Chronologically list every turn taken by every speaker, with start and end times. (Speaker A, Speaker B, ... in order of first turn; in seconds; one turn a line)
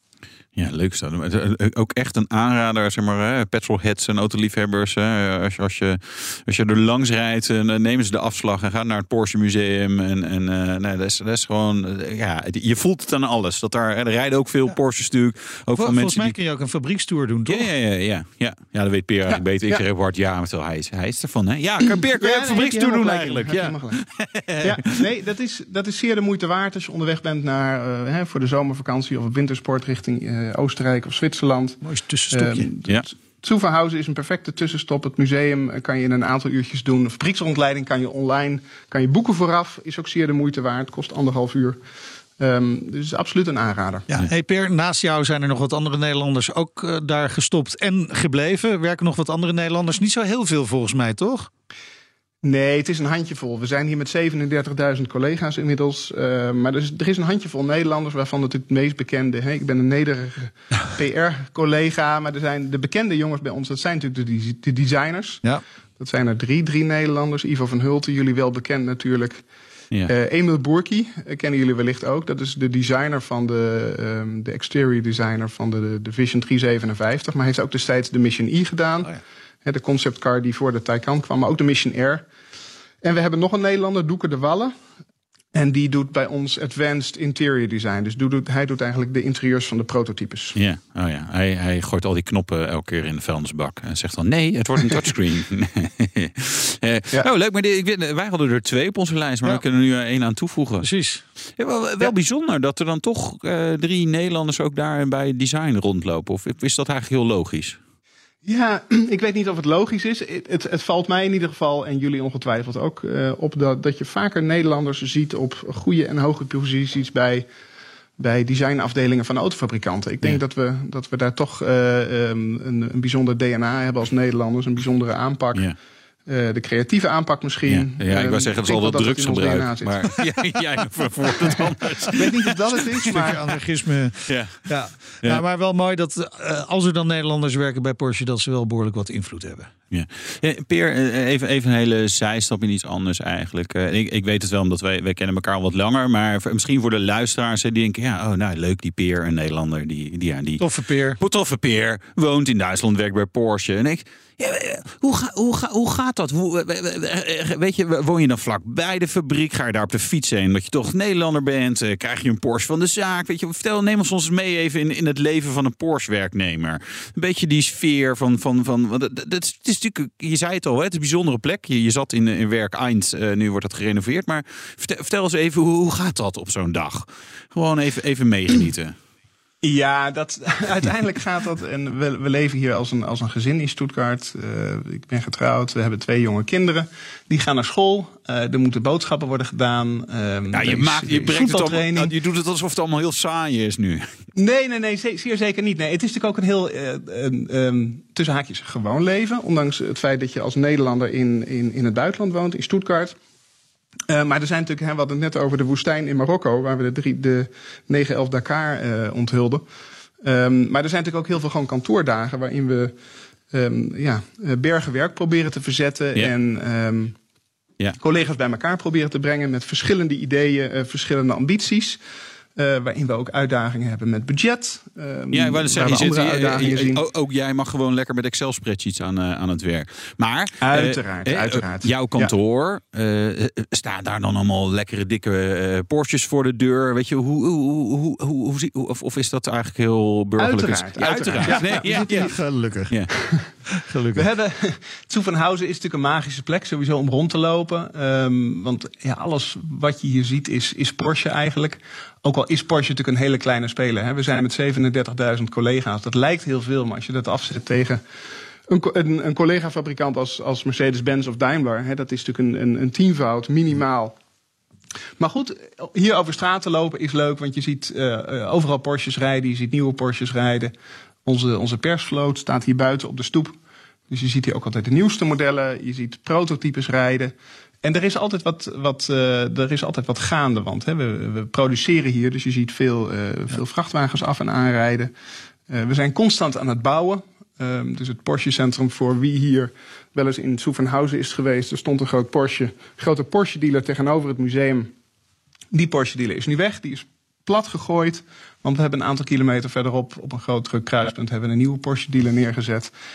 Speaker A: 0.5-16.3
Speaker B: 15.7-17.7
Speaker A: 17.5-24.8
Speaker C: 19.4-19.8
Speaker C: 21.9-24.0
Speaker C: 24.6-41.8
Speaker B: 31.8-32.7
Speaker C: 42.4-44.1
Speaker B: 44.1-51.5
Speaker C: 52.4-65.4
Speaker C: 66.0-69.4
Speaker C: 70.1-82.3
Speaker C: 83.0-84.7
Speaker C: 85.5-90.5
Speaker A: 90.5-100.9
Speaker B: 100.8-101.2
Speaker A: 101.6-107.8
Speaker C: 108.4-117.5
Speaker C: 118.2-125.7
Speaker C: 126.3-130.2
Speaker A: 127.7-133.1
Speaker C: 131.5-133.4
Speaker B: 133.1-139.7
Speaker A: 134.3-135.4
Speaker A: 139.9-150.6
Speaker B: 150.6-151.2
Speaker A: 151.2-178.9
Speaker C: 179.6-192.1
Speaker A: 190.5-194.1
Speaker C: 194.3-203.1
Speaker C: 204.1-209.6
Speaker C: 210.2-212.9
Speaker C: 213.5-217.1
Speaker C: 218.0-222.0
Speaker C: 222.6-227.0
Speaker A: 225.3-242.3
Speaker C: 230.6-232.3
Speaker C: 240.4-242.3
Speaker B: 241.4-242.9
Speaker B: 243.7-244.2
Speaker C: 244.1-258.0
Speaker C: 258.7-264.1
Speaker C: 265.2-270.7
Speaker C: 271.2-273.5
Speaker C: 274.1-285.1
Speaker C: 285.7-294.9
Speaker C: 295.7-302.9